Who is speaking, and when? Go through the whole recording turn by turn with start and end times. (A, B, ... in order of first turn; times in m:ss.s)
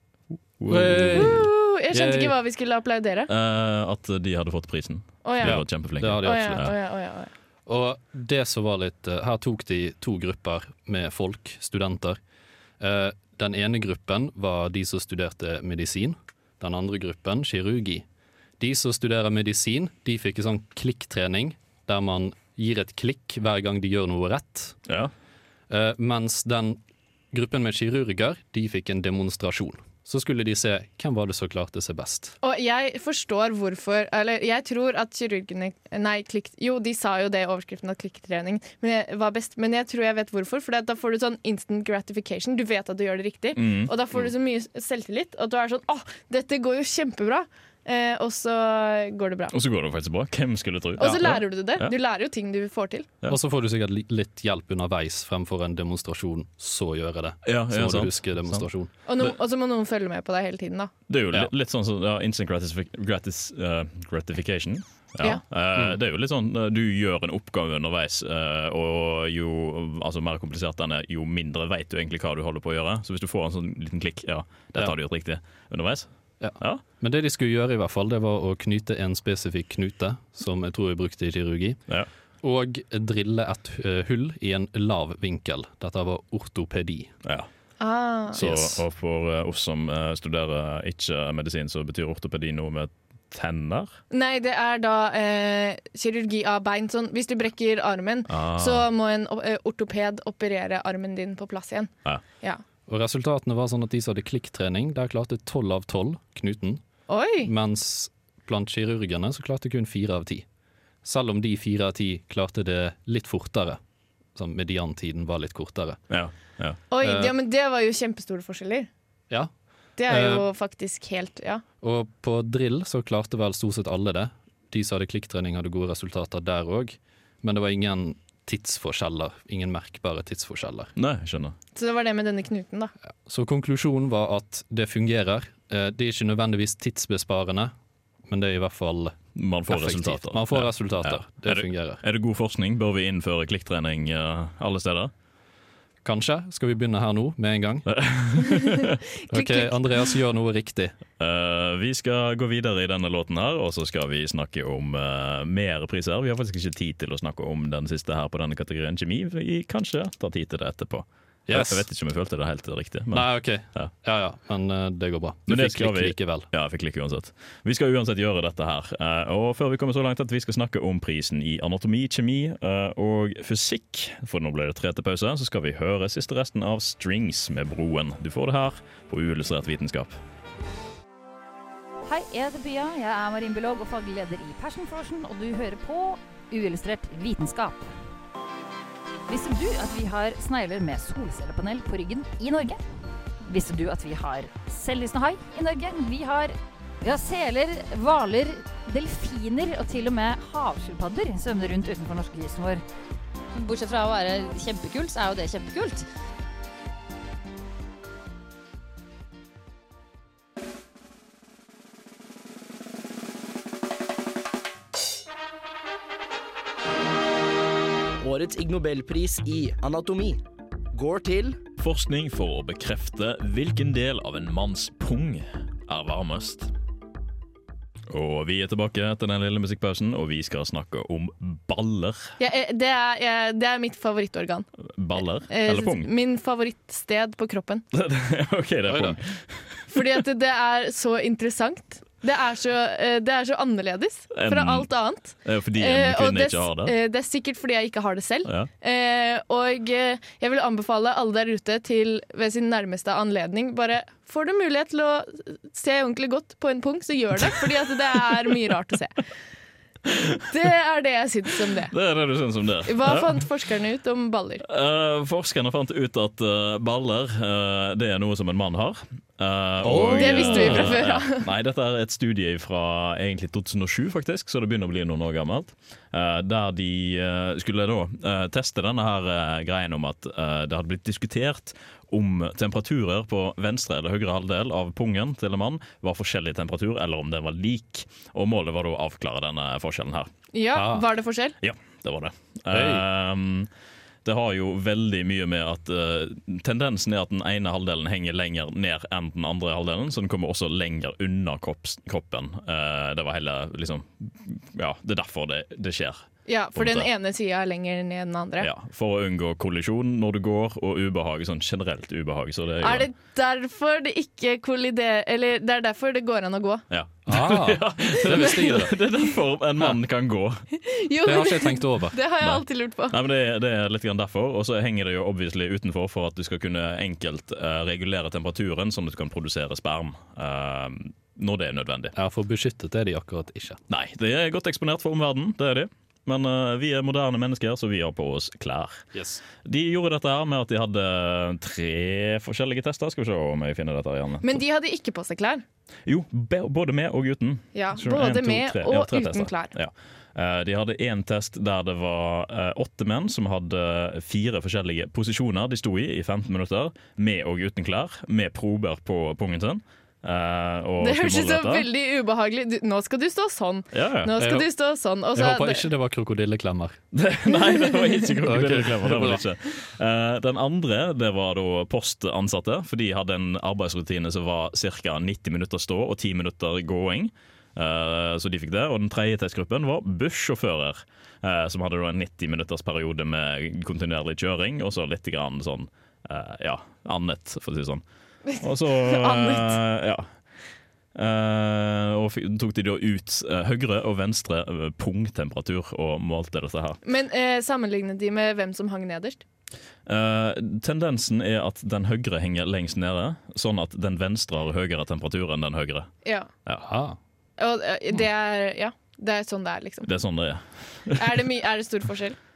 0:00.6-0:01.4 A
0:00.7-0:02.3 B
0:01.1-0:03.3 C
0:03.3-0:06.7 A
0:05.2-0:07.3 C
0:05.4-0:06.7 B
0:07.6-0:12.2 B
0:12.8-0:18.0 B
0:18.6-0:24.8 B
0:25.7-0:26.8 B
0:27.3-0:32.3 B
0:32.4-0:49.5 C
0:43.5-0:43.9 A
0:49.5-0:51.9 A
0:51.0-0:53.1 C
0:53.3-0:58.9 B
0:57.4-0:58.7 A
0:59.1-1:00.9 C
1:01.1-1:16.1 A
1:16.4-1:21.8 B
1:22.4-1:27.1 B
1:27.8-1:28.4 C
1:28.3-1:33.9 A
1:28.4-1:28.8 B
1:34.1-1:42.6 C
1:38.3-1:38.8 A
1:42.9-1:46.8 B
1:47.1-1:47.5 C
1:47.4-1:50.4 B
1:51.0-1:53.8 B
1:54.3-1:56.0 B
1:56.1-1:56.8 A
1:56.9-1:58.9 C
1:57.0-1:57.3 B
2:00.0-2:01.6 C
2:00.1-2:00.5 B
2:01.8-2:10.9 B
2:11.0-2:11.5 A
2:11.7-2:12.9 C
2:13.2-2:17.7 B
2:18.2-2:22.0 B
2:19.3-2:25.1 A
2:26.0-2:27.9 B
2:27.9-2:29.0 A
2:29.3-2:30.9 B
2:29.3-2:30.1 C
2:31.2-2:43.9 A
2:41.5-2:41.9 B
2:43.1-2:46.5 B
2:45.5-3:00.2 A
3:02.1-3:07.9 D
3:09.3-3:12.8 D
3:13.4-3:22.8 D
3:23.5-3:26.0 E
3:38.2-3:40.4 F
3:40.9-3:41.6 F
3:41.8-3:46.7 A
3:48.1-3:52.3 A
3:52.4-3:54.7 C
3:54.9-3:56.1 A
3:55.5-3:57.8 C
3:57.9-4:00.1 A
3:58.9-3:59.2 B
3:59.9-4:19.2 C
4:04.3-4:04.9 A
4:05.4-4:06.9 A
4:20.1-4:20.4 A
4:20.5-4:21.9 C
4:21.9-4:23.4 A
4:22.8-4:24.6 C
4:24.6-4:50.3 A
4:29.8-4:31.0 B
4:30.1-4:31.4 C
4:50.5-4:51.6 C
4:50.7-4:51.0 B
4:51.6-4:53.7 A
4:52.7-4:53.0 B
4:54.2-5:06.2 A
5:06.4-5:08.7 C
5:06.8-5:07.1 A
5:08.6-5:13.1 A
5:12.8-5:16.8 C
5:16.9-5:20.6 A
5:17.3-5:18.9 B
5:20.8-5:23.2 C
5:21.2-5:22.2 B
5:23.1-5:32.1 A
5:32.1-5:33.8 B
5:33.9-5:39.0 A
5:39.1-5:39.4 B
5:39.6-5:44.6 A
5:44.4-5:45.6 C
5:46.1-6:01.9 A
5:47.7-5:49.7 C
6:01.0-6:05.8 C
6:03.9-6:04.3 A
6:04.4-6:04.7 B
6:05.3-6:07.0 B
6:07.1-6:28.0 A
6:07.6-6:08.2 C
6:08.4-6:09.4 B
6:28.5-6:29.8 C
6:28.6-6:30.3 A
6:31.1-6:37.0 A
6:37.0-6:39.4 C
6:40.0-6:46.1 A
6:46.8-6:47.2 B
6:47.6-6:50.1 C
6:50.0-6:51.2 A
6:51.1-6:52.4 C